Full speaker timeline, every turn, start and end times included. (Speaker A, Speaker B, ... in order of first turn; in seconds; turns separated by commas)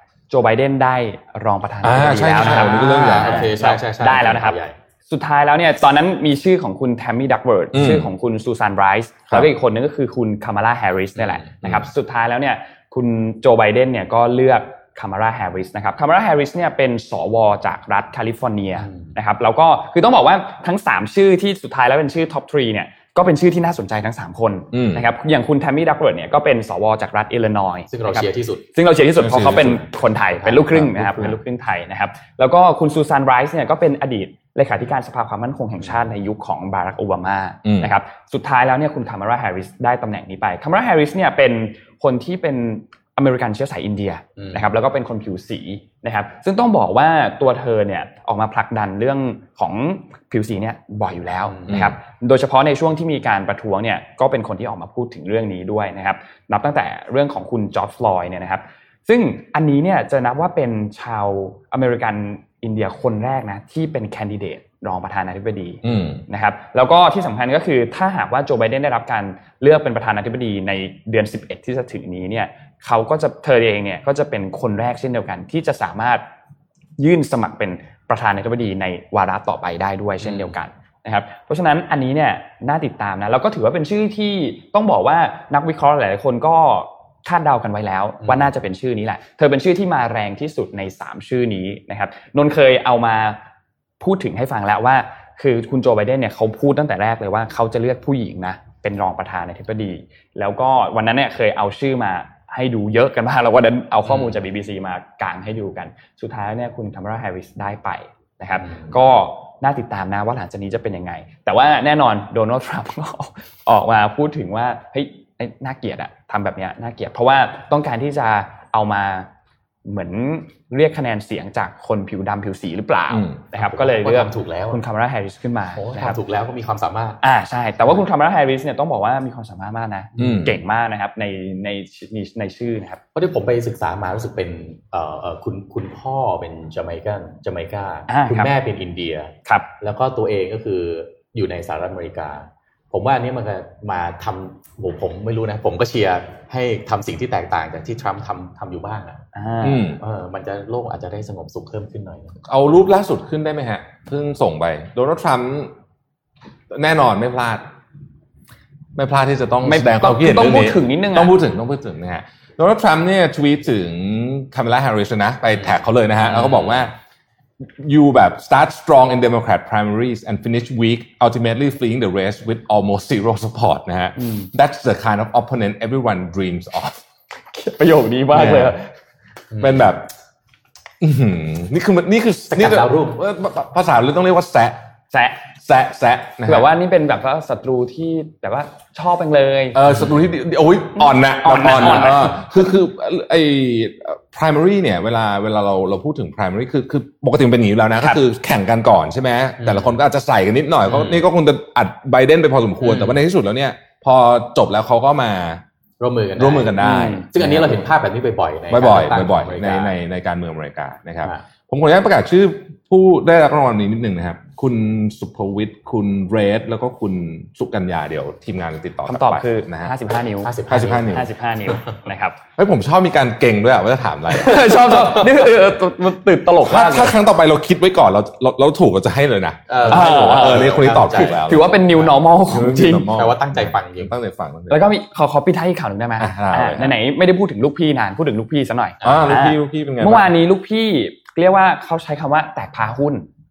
Speaker A: 0.3-76.2, Speaker B: 1.8-3.5, Speaker C: 2.4-4.7, Speaker B: 7.7-8.1, Speaker C: 11.2-11.8, Speaker C: 18.8-19.1, Speaker B: 24.7-25.1, Speaker C: 27.9-28.6, Speaker B: 29.2-29.9, Speaker C: 30.3-30.6, Speaker B: 30.6-31.4, Speaker B: 37.6-37.9, Speaker C: 44.4-44.7, Speaker C: 51.5-51.9, Speaker B: 51.7-51.9, Speaker B: 65.8-66.2, Speaker A: 77.0-93.4, Speaker C: 80.2-80.6, Speaker C: 88.2-88.5, Speaker A: 94.0-119.3, Speaker C: 104.0-104.4, Speaker C: 108.5-109.0, Speaker A: 119.8-126.2, Speaker B: 123.1-123.4, Speaker C: 123.5-124.8, Speaker C: 125.7-127.2, Speaker A: 127.2-133.0, Speaker C: 130.1-130.5, Speaker B: 130.2-130.6, Speaker C: 133.1-149.2, Speaker A: 138.1-138.5, Speaker A: 149.3-149.9, Speaker B: 149.6-150.0, Speaker C: 150.0-152.3, Speaker B: 152.4-155.7, Speaker B: 156.7-157.7, Speaker B: 158.9-166.9, Speaker A: 159.6-161.3, Speaker C: 166.2-166.9, Speaker B: 167.6-177.0, Speaker A: 174.2-174.5, Speaker A: 177.5-178.8, Speaker B: 178.3-178.8, Speaker C: 179.5-179.9, Speaker B: 179.6-180.1, Speaker B: 181.0-184.8, Speaker C: 182.5-183.2, Speaker A: 185.1-185.4, Speaker B: 185.6-186.7, Speaker A: 186.4-189.8, Speaker B: 189.7-205.6, Speaker C: 189.9-190.1, Speaker A: 191.0-192.5, Speaker C: 199.6-200.0, Speaker C: 200.8-201.2, Speaker C: 202.8-203.2, Speaker C: 206.0-210.0, Speaker B: 206.4-207.9, Speaker A: 206.8-207.2, Speaker B: 208.7-219.9, Speaker A: 219.1-222.4, Speaker C: 220.4-221.1, Speaker B: 220.7-221.3, Speaker B: 222.6-225.3, Speaker A: 224.3-227.2, Speaker B: 226.6-234.9, Speaker C: 229.7-232.1, Speaker A: 229.9-233.1, Speaker C: 233.1-234.1, Speaker A: 234.7-243.2, Speaker B: 236.2-236.9, Speaker C: 239.0-239.3, Speaker B: 239.0-240.3